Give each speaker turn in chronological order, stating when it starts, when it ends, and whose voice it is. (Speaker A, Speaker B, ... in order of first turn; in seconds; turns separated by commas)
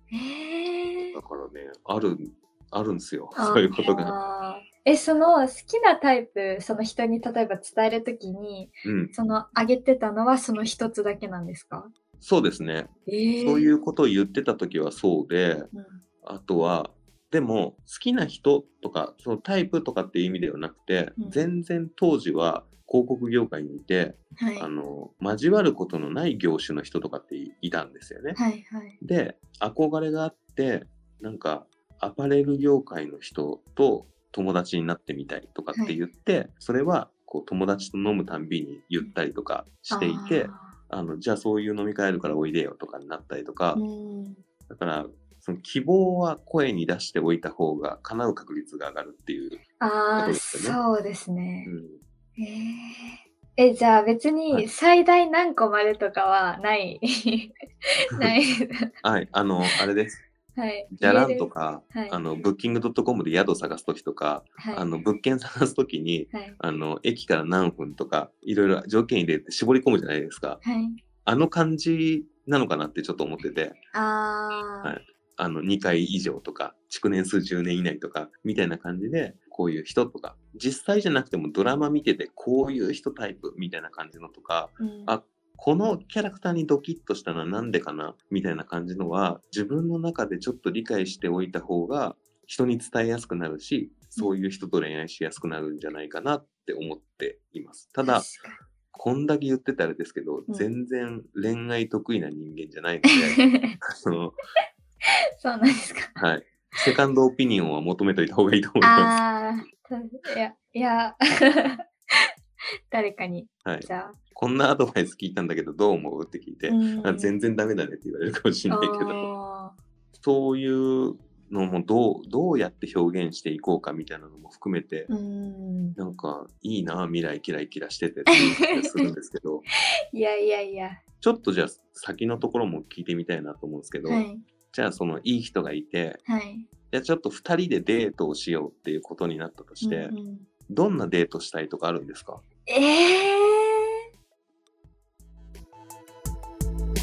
Speaker A: 0.1-1.2, Speaker B: 1.1-4.2, Speaker A: 3.4-11.9, Speaker B: 8.8-9.1, Speaker B: 12.2-12.9, Speaker A: 13.1-13.7, Speaker B: 13.4-15.7, Speaker A: 15.7-16.0, Speaker B: 16.2-28.4, Speaker A: 21.2-21.5, Speaker A: 24.4-24.7, Speaker A: 28.4-29.0, Speaker B: 29.0-43.8, Speaker A: 35.7-36.0, Speaker A: 39.9-40.8, Speaker A: 43.8-44.4, Speaker B: 44.7-49.6, Speaker A: 49.8-51.7, Speaker B: 50.2-50.8, Speaker B: 51.6-52.0, Speaker A: 52.4-58.9, Speaker B: 59.0-60.2, Speaker A: 60.6-62.2, Speaker B: 60.9-70.6, Speaker A: 64.6-64.9, Speaker A: 66.3-66.6, Speaker A: 70.6-71.0, Speaker B: 71.2-73.8, Speaker A: 73.9-75.0, Speaker B: 74.8-98.3, Speaker A: 84.8-85.1, Speaker A: 98.0-98.6, Speaker B: 98.9-104.4, Speaker A: 103.1-103.8, Speaker A: 105.4-106.2, Speaker B: 106.2-109.2, Speaker A: 108.8-112.3, Speaker A: 112.9-114.2, Speaker B: 113.7-119.3, Speaker A: 116.7-117.4, Speaker A: 118.7-119.8, Speaker B: 120.2-125.1, Speaker A: 125.1-126.0, Speaker B: 126.0-129.7, Speaker A: 128.3-129.1, Speaker A: 130.1-131.0, Speaker B: 131.2-136.2, Speaker A: 134.1-134.4, Speaker A: 136.3-136.7, Speaker B: 136.9-140.2, Speaker A: 139.8-140.5, Speaker B: 140.7-142.4, Speaker A: 142.7-144.0